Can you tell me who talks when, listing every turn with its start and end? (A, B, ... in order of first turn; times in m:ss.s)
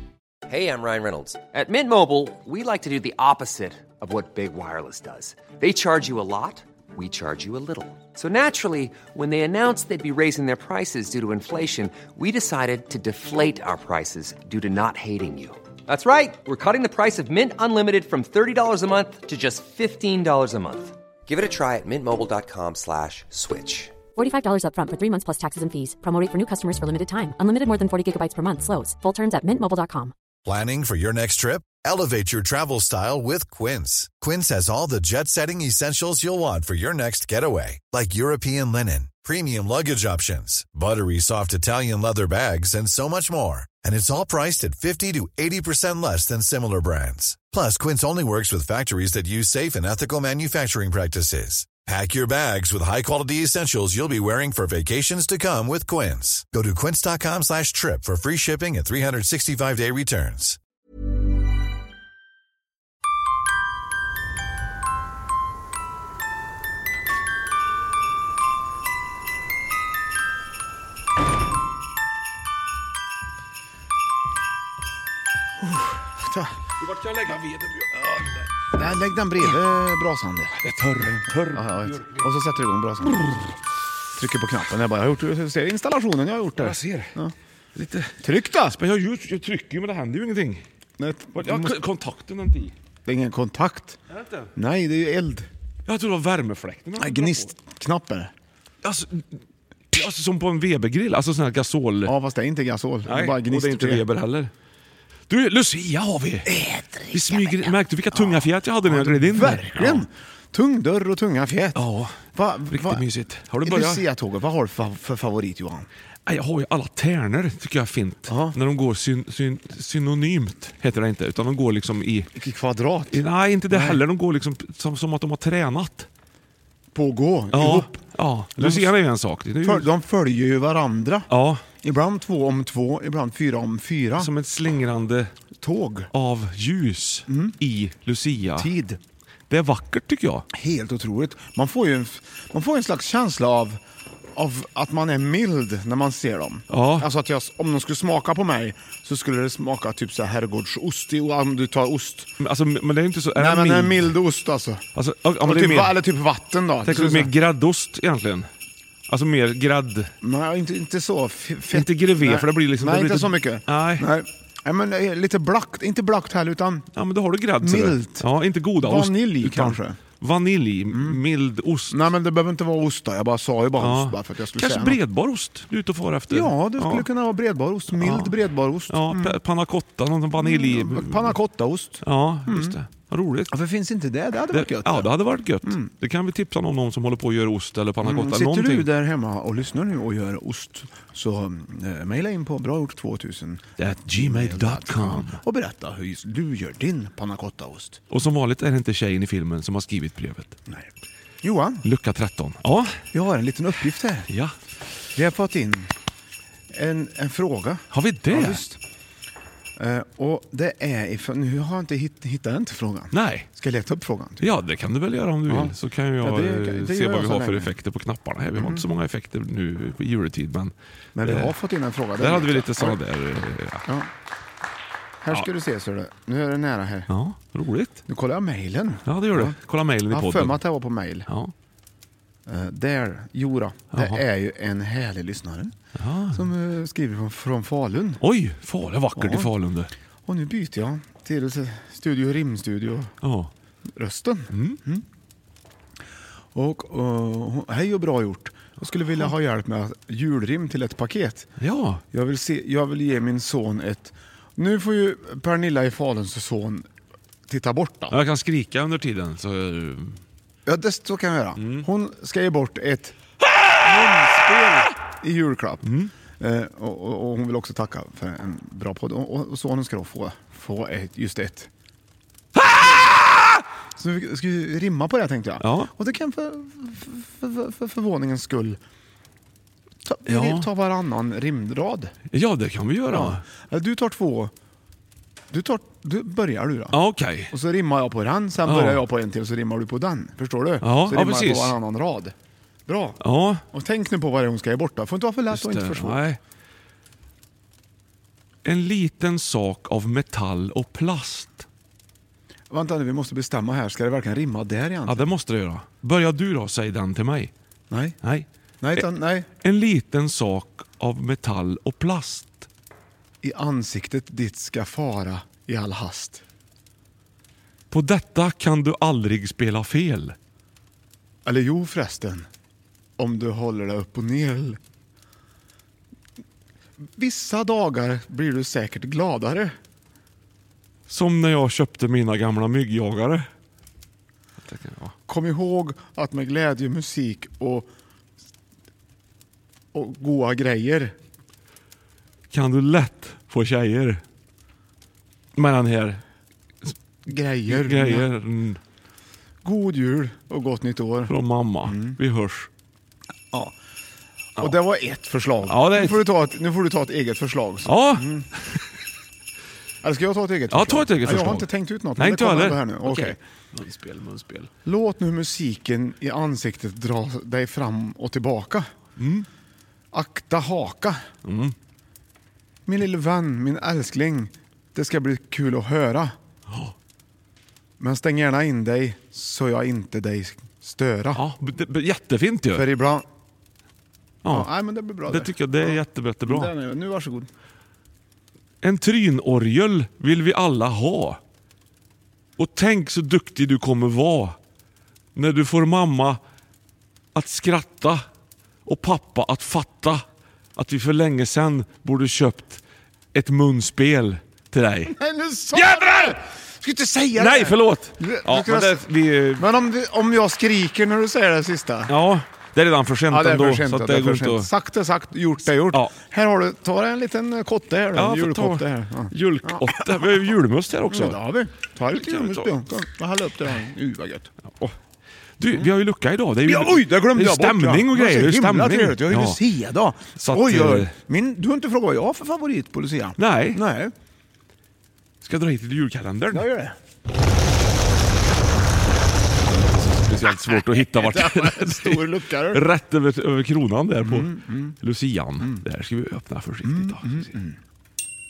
0:00.5-0:24.0 A
0:24.1-0:30.1 B
0:30.4-1:00.6 C
1:15.6-1:16.5 D
1:16.8-1:18.5 E
1:18.7-1:20.6 D
1:20.6-1:22.2 E
1:21.2-1:23.3 D
1:23.1-1:23.4 E
1:24.2-1:27.3 D
1:26.6-1:27.2 E
1:27.7-1:30.6 E
1:28.2-1:28.8 D
1:31.0-1:31.8 D
1:31.3-1:32.7 E
1:33.0-1:34.0 D
1:34.1-1:34.5 E
1:34.5-1:35.5 D
1:35.8-1:37.5 E
1:37.0-1:38.3 D
1:38.8-1:39.4 E
1:39.9-1:42.1 E
1:42.0-1:44.0 D
1:43.0-1:44.5 E
1:45.3-1:50.1 E
1:46.4-1:53.1 D
1:51.7-1:54.0 E
1:53.6-1:55.9 D
1:56.2-2:02.3 E
1:58.3-1:58.6 D
2:02.3-2:04.0 D
2:03.1-2:06.1 E
2:06.9-2:08.0 D
2:07.5-2:09.9 E
2:08.6-2:08.9 D
2:09.6-2:11.3 D
2:11.3-2:11.6 E
2:11.8-2:14.3 D
2:14.2-2:15.3 E
2:15.6-2:16.1 D
2:16.1-2:18.7 E
2:17.3-2:17.6 D
2:18.6-2:19.0 D
2:19.5-2:20.5 E
2:20.5-2:23.8 D
2:24.3-2:32.3 D
2:26.7-2:27.1 E
2:32.4-2:34.2 E
2:33.3-2:34.8 D
2:34.9-2:36.0 E
2:35.4-2:37.3 D
2:36.8-2:38.5 E
2:39.1-2:40.1 E
2:40.2-2:46.9 D
2:41.7-2:44.1 E
2:46.9-2:52.0 E
2:47.6-2:48.2 D
2:48.8-2:50.0 D
2:50.9-2:51.2 D
2:51.9-2:55.0 D
2:53.8-2:57.1 E
2:56.3-2:59.4 D
2:57.9-3:01.4 E
3:00.4-3:02.8 D
3:02.0-3:03.5 E
3:03.5-3:05.9 D
3:04.5-3:08.9 E
3:08.0-3:18.0 D
3:13.8-3:15.4 E
3:18.1-3:20.6 E
3:21.4-3:21.9 D
3:21.8-3:22.9 E
3:23.1-3:24.3 D
3:24.3-3:24.5 E
3:25.1-3:25.9 D
3:26.7-3:28.8 D
3:27.9-3:28.6 E
3:29.8-3:34.5 D
3:33.1-3:33.5 E
3:34.4-3:41.5 E
3:35.5-3:37.7 D
3:38.5-3:38.8 D
3:41.1-3:43.0 D
3:42.2-3:43.9 E
3:45.2-3:47.1 D
3:47.1-3:48.0 E
3:48.0-3:49.6 D
3:49.0-3:51.5 E
3:50.1-3:51.3 D
3:52.4-3:55.7 D
3:53.9-3:54.2 E
3:56.0-3:56.5 E
3:56.3-3:58.2 D
3:58.2-3:59.9 E
3:59.2-3:59.5 D
4:00.2-4:03.1 D
4:03.2-4:03.5 E
4:03.9-4:05.0 D
4:04.5-4:04.8 E
4:06.5-4:11.5 D
4:11.6-4:12.0 E
4:12.1-4:16.9 D
4:17.5-4:18.2 D
4:18.1-4:20.2 E
4:20.6-4:23.2 D
4:21.6-4:21.9 E
4:23.8-4:25.9 D
4:23.8-4:24.8 E
4:25.8-4:26.1 E
4:26.4-4:31.7 D
4:32.6-4:33.5 E
4:34.0-4:38.8 D
4:35.6-4:35.9 E
4:40.0-4:42.1 D
4:40.2-4:40.7 E
4:42.3-4:43.4 E
4:43.1-4:44.5 D
4:45.5-4:47.0 D
4:46.9-4:47.5 E
4:47.5-4:52.3 D
4:48.6-4:49.0 E
4:50.8-4:51.8 E
4:52.9-4:56.2 D
4:53.2-4:53.6 E
4:55.5-4:56.4 E
4:58.6-5:01.7 E
5:02.7-5:05.3 D
5:05.0-5:07.5 E
5:07.9-5:08.2 D
5:08.2-5:09.1 E
5:08.8-5:09.5 D
5:09.6-5:12.7 E
5:13.4-5:16.4 D
5:17.9-5:20.4 E
5:21.4-5:22.5 D
5:23.2-5:24.8 D
5:27.2-5:29.7 D
5:31.1-5:33.5 E
5:34.6-5:35.1 E
5:35.2-5:37.9 D
5:39.9-5:41.1 D
5:42.5-5:44.2 E
5:45.5-5:46.2 E
5:47.3-5:48.3 D
5:47.7-5:48.8 E
5:49.6-5:51.3 D
5:51.3-5:52.7 E
5:51.8-5:52.2 D
5:54.6-5:58.5 D
5:55.6-5:56.2 E
5:57.8-5:58.9 E
6:00.0-6:03.4 D
6:00.7-6:04.7 E
6:04.8-6:08.9 D
6:09.2-6:09.5 E
6:10.1-6:11.2 D
6:11.4-6:11.7 E
6:12.8-6:16.3 D
6:18.0-6:21.4 D
6:21.3-6:22.8 E
6:22.7-6:23.2 D
6:24.4-6:26.7 E
6:24.5-6:27.5 D
6:28.8-6:31.4 E
6:32.6-6:34.6 E
6:35.4-6:36.4 E
6:37.3-6:38.2 E
6:38.8-6:40.2 E
6:40.8-6:42.8 E
6:43.3-6:45.1 E
6:45.1-6:52.1 D
6:45.7-6:46.4 E
6:47.4-6:49.6 E
6:52.1-6:54.7 E
6:53.3-7:00.0 D
6:55.7-6:56.1 E
6:58.1-7:01.4 E
7:01.1-7:04.5 D
7:02.1-7:02.7 E
7:05.6-7:09.6 E
7:06.6-7:14.1 D
7:10.4-7:11.1 E
7:13.4-7:13.8 E
7:15.4-7:16.7 E
7:16.5-7:17.0 D
7:19.6-7:27.5 E
7:21.0-7:22.8 D
7:24.2-7:25.0 D
7:26.8-7:27.8 D